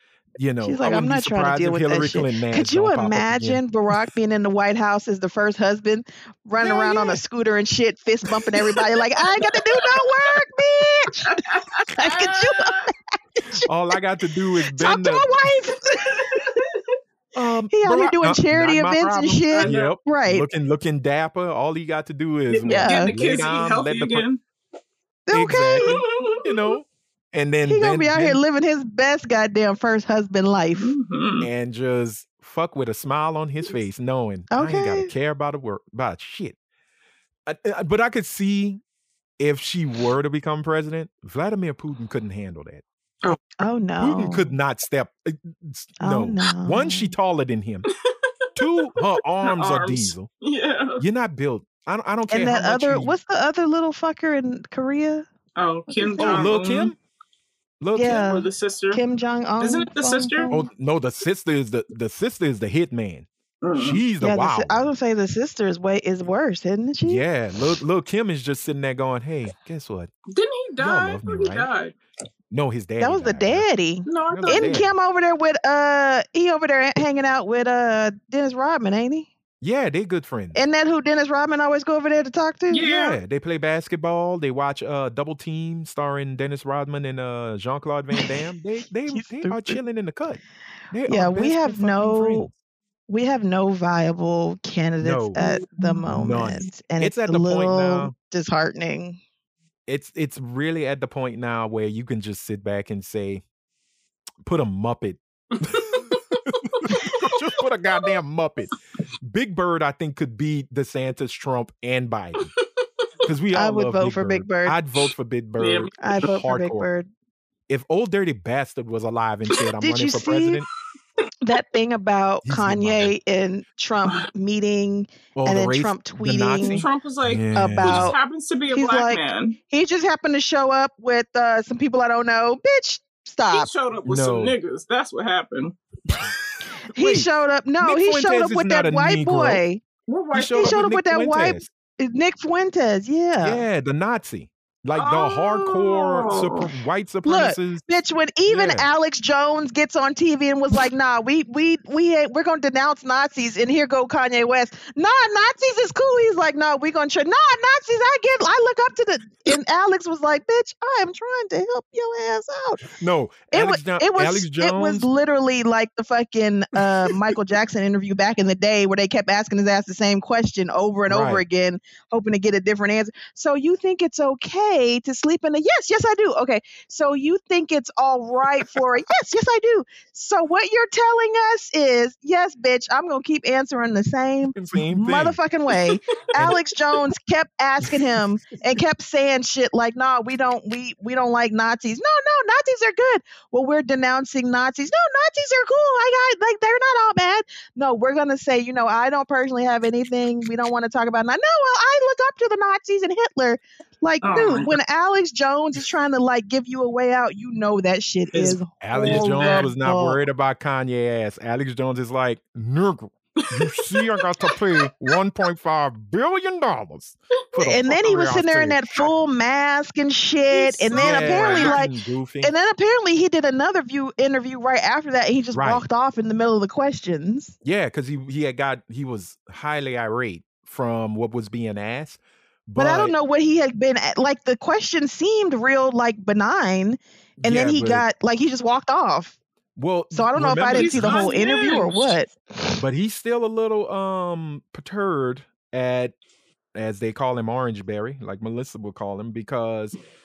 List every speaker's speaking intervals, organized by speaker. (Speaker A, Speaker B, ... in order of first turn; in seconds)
Speaker A: 0.4-3.6, 13.6-15.3, 17.3-24.2, 25.3-28.4, 31.4-36.5, 37.5-38.8, 39.4-42.8, 44.0-47.9, 48.5-50.3, 51.0-53.1, 56.2-57.0, 57.8-58.2, 60.5-64.9, 67.0-70.1, 70.8-71.7, 72.5-73.7, 74.3-74.9, 79.6-80.6, 82.8-92.5, 95.0-95.4, 96.1-98.1, 99.9-103.4, 104.4-112.5, 113.2-116.9, 117.7-120.7, 122.4-123.1, 125.3-128.1, 134.0-134.6, 136.9-139.6, 140.3-141.7, 143.4-147.9, 148.5-148.9, 162.9-165.1, 171.1-171.4, 184.5-185.4, 186.3-186.6, 208.8-219.1, 220.9-222.5, 225.5-225.9, 227.6-233.1, 237.4-238.0, 239.8-241.4, 242.8-246.1, 246.7-249.9
Speaker B: 0.6-13.7, 14.7-16.6, 17.7-20.5, 22.6-23.1, 25.3-26.0, 27.6-30.9, 34.5-35.1, 43.6-44.5, 46.0-47.1, 52.3-55.3, 55.9-56.5, 58.0-60.7, 64.2-67.2, 73.0-79.3, 80.5-82.9, 89.1-89.8, 91.1-92.5, 93.1-99.2, 113.5-114.8, 116.0-117.1, 119.8-120.6, 121.4-126.8, 127.5-128.2, 128.7-133.7, 136.9-139.8, 140.5-143.6, 147.2-162.9, 163.5-210.2, 217.6-227.5, 232.8-239.4, 240.1-242.8
Speaker C: 6.6-7.2, 8.5-10.0, 11.2-12.9, 16.1-16.6, 19.5-19.9, 22.5-24.4, 25.8-26.8, 30.8-31.5, 49.4-51.0, 55.5-56.9, 58.0-59.0, 59.6-60.5, 63.6-64.0, 70.3-71.9, 74.0-74.7, 82.7-83.2, 95.4-96.0, 105.5-106.2, 115.6-116.3, 126.6-129.6, 133.5-135.8, 140.1-140.8, 144.9-146.7, 204.2-204.8, 208.3-209.7, 213.4-215.1, 220.5-221.8, 240.7-242.2